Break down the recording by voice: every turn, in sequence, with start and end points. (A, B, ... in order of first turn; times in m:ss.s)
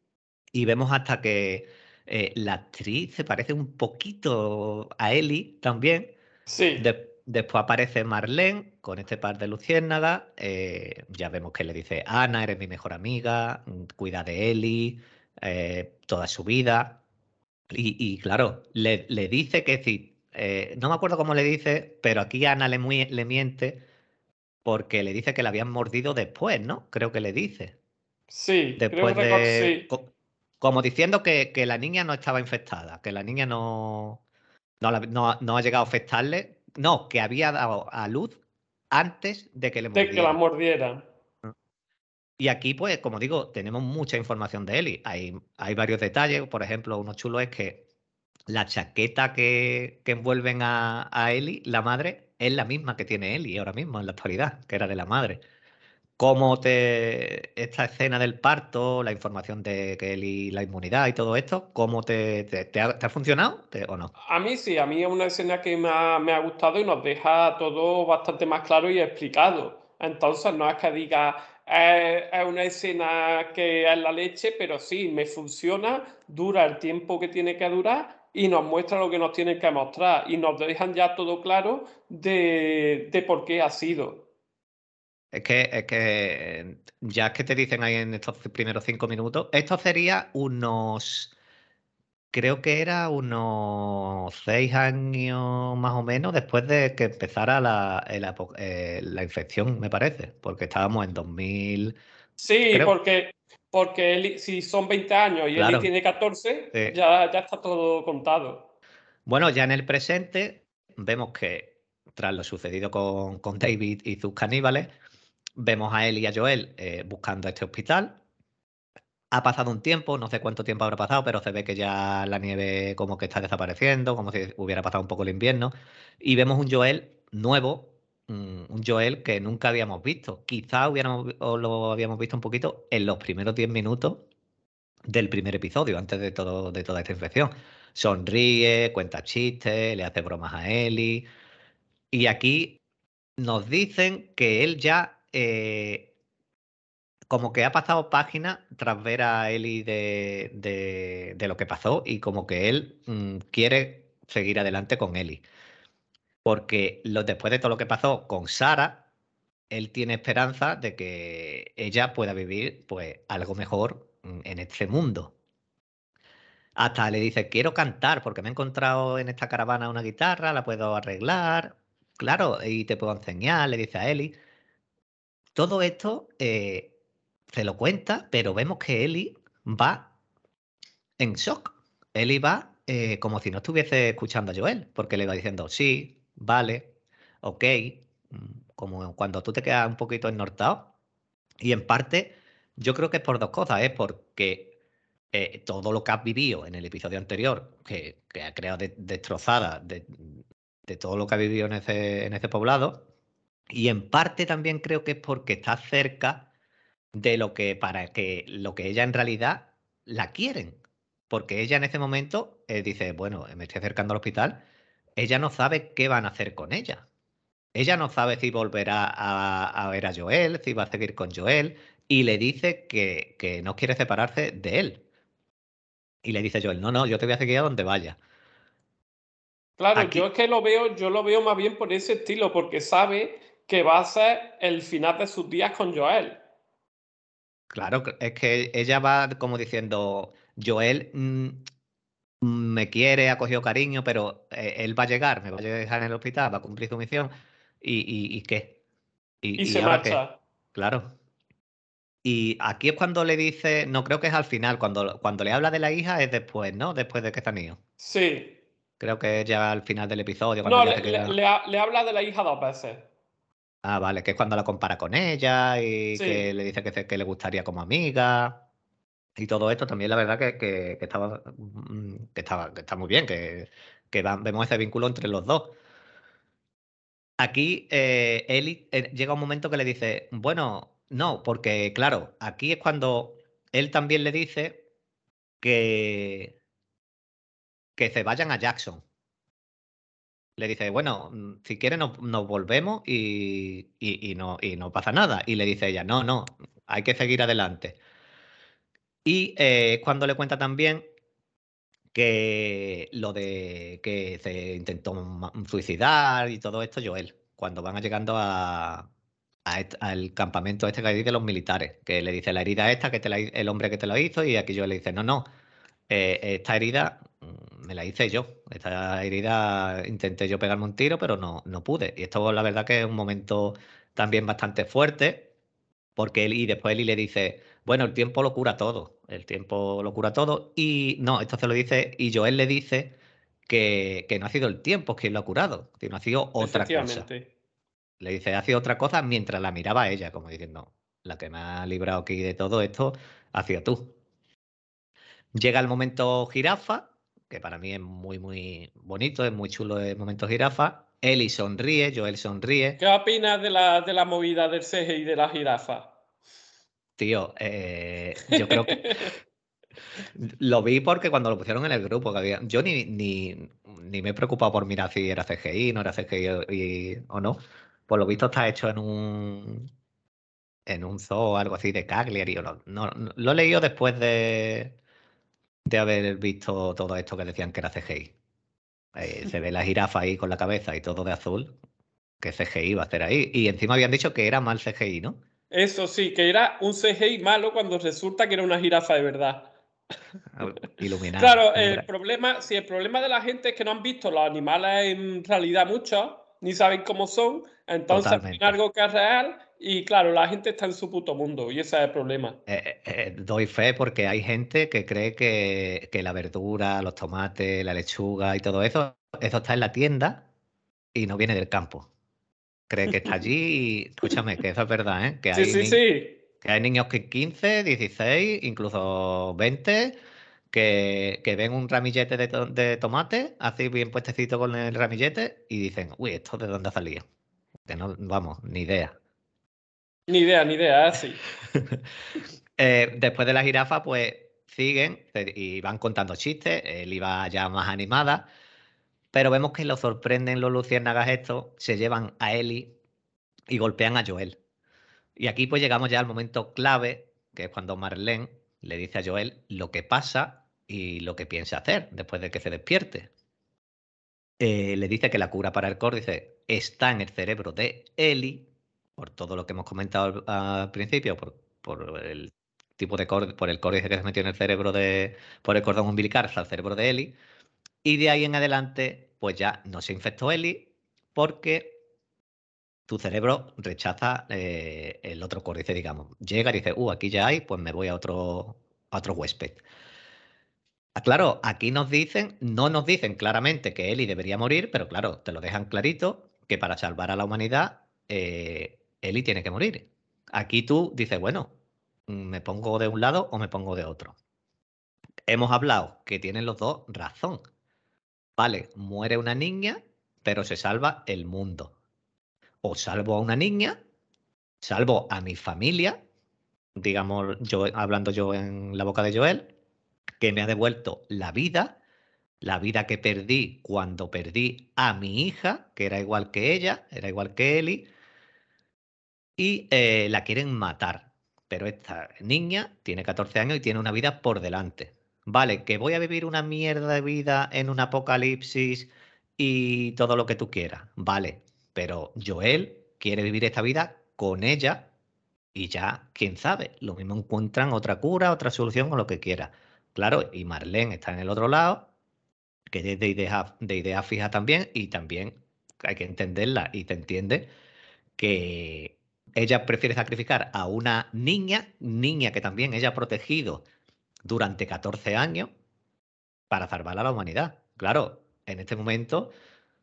0:00.5-0:06.1 A
0:06.5-0:06.8 B
0:06.8-0:17.0 A
0:17.7-0:23.8 A
0:24.6-0:27.8 A
0:28.3-0:29.9 B
0:28.8-0:30.1 A
0:30.6-0:34.2 A
0:34.8-0:38.4 A
0:38.9-0:40.4 A
0:39.9-0:41.0 B
0:42.4-0:47.8 A
0:48.5-0:55.4 A
0:56.2-1:04.1 A
1:04.3-1:24.2 B
1:25.3-1:31.3 A
1:32.3-1:42.0 A
1:42.4-1:48.7 B
1:42.7-1:43.0 A
1:45.6-1:45.9 A
1:49.3-1:54.9 A
1:55.6-1:58.2 A
1:59.3-2:14.2 A
2:15.1-2:21.3 A
2:22.1-2:22.8 A
2:23.4-2:26.1 A
2:27.3-2:35.4 A
2:36.4-2:39.0 A
2:39.7-2:45.3 A
2:46.8-2:54.3 A
2:55.6-2:56.9 A
2:57.5-3:00.1 A
3:01.2-3:06.9 A
3:07.4-3:10.9 A
3:11.6-3:14.7 A
3:15.3-3:23.0 A
3:23.7-3:26.5 A
3:27.1-3:34.6 A
3:35.2-3:37.0 A
3:37.8-3:45.0 A
3:46.2-3:48.2 A
3:49.8-3:56.4 B
3:50.0-3:50.2 A
3:57.7-4:01.7 A
4:02.4-4:08.8 A
4:09.4-4:10.2 A
4:09.6-4:10.4 B
4:10.7-4:11.1 A
4:12.2-4:17.8 A
4:18.0-4:18.6 B
4:19.0-4:21.4 A
4:20.6-4:23.0 B
4:23.8-4:28.6 A
4:26.1-4:26.5 B
4:29.4-4:35.8 A
4:37.4-4:44.8 A
4:45.6-4:46.6 A
4:48.0-4:49.0 A
4:50.6-4:58.0 A
4:59.2-5:01.0 A
5:02.1-5:09.1 A
5:09.7-5:15.5 A
5:16.1-5:25.5 A
5:26.2-5:33.2 A
5:33.7-5:37.3 A
5:36.6-5:37.5 B
5:38.2-5:44.2 A
5:45.5-5:53.0 A
5:53.0-5:56.1 B
5:57.2-5:59.3 A
5:58.5-5:59.3 B
6:00.4-6:09.9 A
6:10.9-6:15.0 A
6:15.9-6:18.3 A
6:19.2-6:21.7 A
6:22.4-6:25.4 A
6:25.7-6:29.7 B
6:30.6-6:32.0 A
6:31.4-6:42.6 B
6:38.1-6:38.8 A
6:42.7-6:50.4 A
6:51.2-6:52.1 A
6:52.9-6:56.0 A
6:55.5-6:56.4 B
6:56.6-7:00.2 A
7:00.7-7:07.2 A
7:07.9-7:09.2 A
7:10.3-7:11.4 B
7:11.7-7:12.0 A
7:12.8-7:18.5 A
7:19.3-7:22.9 A
7:23.7-7:24.6 A
7:25.4-7:33.3 A
7:34.6-7:47.4 A
7:48.0-7:52.0 A
7:53.1-7:59.8 A
8:01.2-8:11.7 A
8:12.3-8:14.4 A
8:15.5-8:17.6 A
8:18.6-8:21.9 A
8:22.8-8:24.0 A
8:24.8-8:26.2 A
8:27.0-8:29.7 A
8:30.4-8:32.0 A
8:32.6-8:38.1 A
8:39.6-8:55.1 A
8:55.8-9:02.1 A
9:02.9-9:07.7 A
9:08.4-9:13.8 A
9:14.4-9:15.7 A
9:16.7-9:19.5 A